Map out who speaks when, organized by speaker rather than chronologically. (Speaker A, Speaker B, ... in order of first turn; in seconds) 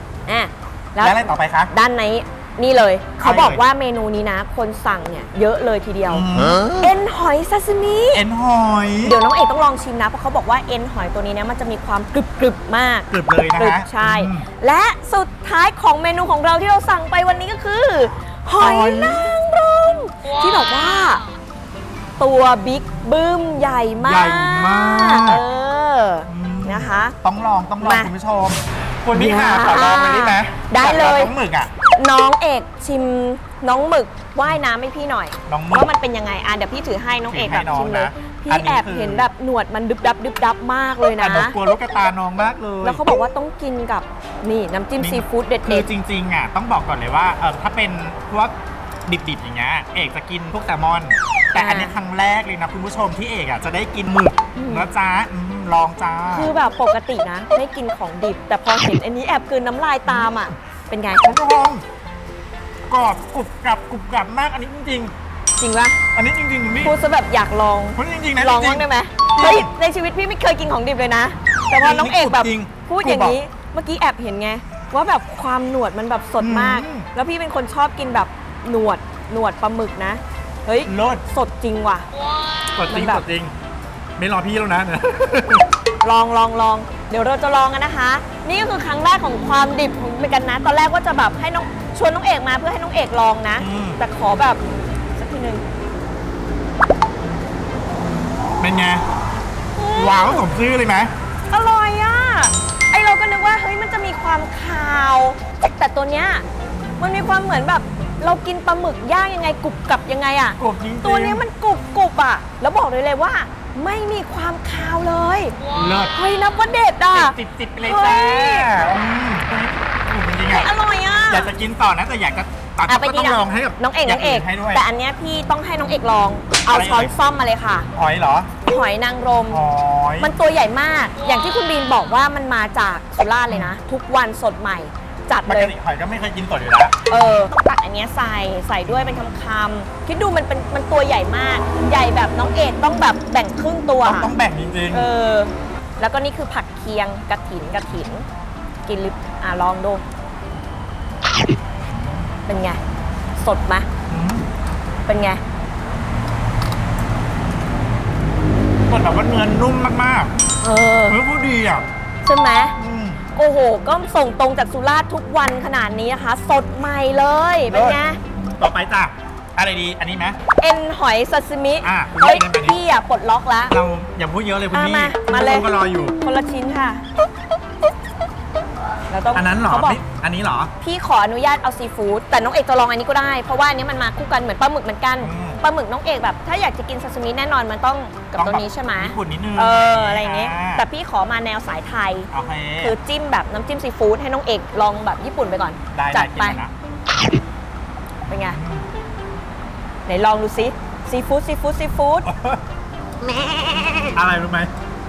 Speaker A: 0.3-8.2, 9.0-21.2, 22.2-27.2, 27.8-28.1, 29.1-31.3, 31.9-41.6, 42.8-45.9, 51.5-51.9, 54.5-54.9, 56.3-61.3, 65.6-66.0, 66.8-82.1, 82.9-83.2, 86.0-94.6, 95.2-95.6, 99.8-100.5, 101.5-106.4, 107.0-115.6, 116.1-118.7, 120.5-121.5, 122.9-127.9, 128.6-129.6, 130.2-135.7, 137.1-144.3, 144.9-148.3, 148.9-150.0, 152.5-152.8, 153.4-153.9, 155.1-155.4, 160.6-161.2, 162.2-162.8, 163.3-168.2, 170.6-173.8, 174.7-177.0, 179.1-180.0, 180.8-192.3, 192.8-196.6, 198.3-198.6, 200.1-202.3
Speaker B: 1.0-1.7, 3.2-3.6, 6.1-6.7, 8.1-9.2, 13.1-14.5, 18.6-19.4, 24.0-25.4, 26.3-31.7, 35.5-35.9, 37.3-39.3, 41.2-43.0, 45.0-48.5, 49.1-56.5, 60.1-60.5, 61.2-61.8, 62.9-65.1, 66.1-67.0, 68.0-69.7, 71.7-73.4, 76.4-77.1, 80.9-81.2, 82.8-83.5, 84.2-85.7, 93.6-94.0, 98.6-99.0, 100.0-101.1, 110.6-111.5, 115.7-116.2, 117.1-120.7, 121.3-124.8, 126.7-127.1, 127.9-128.5, 129.5-130.3, 133.5-133.8, 135.4-137.5, 138.9-139.2, 144.1-145.1, 151.9-152.3, 154.1-154.5, 158.9-160.3, 161.1-161.9, 162.8-163.2, 167.7-168.0, 168.6-170.4, 171.8-172.8, 173.7-176.2, 179.3-180.7, 185.2-185.6, 188.4-190.8, 192.3-192.9, 195.9-196.7, 198.3-198.9, 202.2-202.6, 204.1-204.7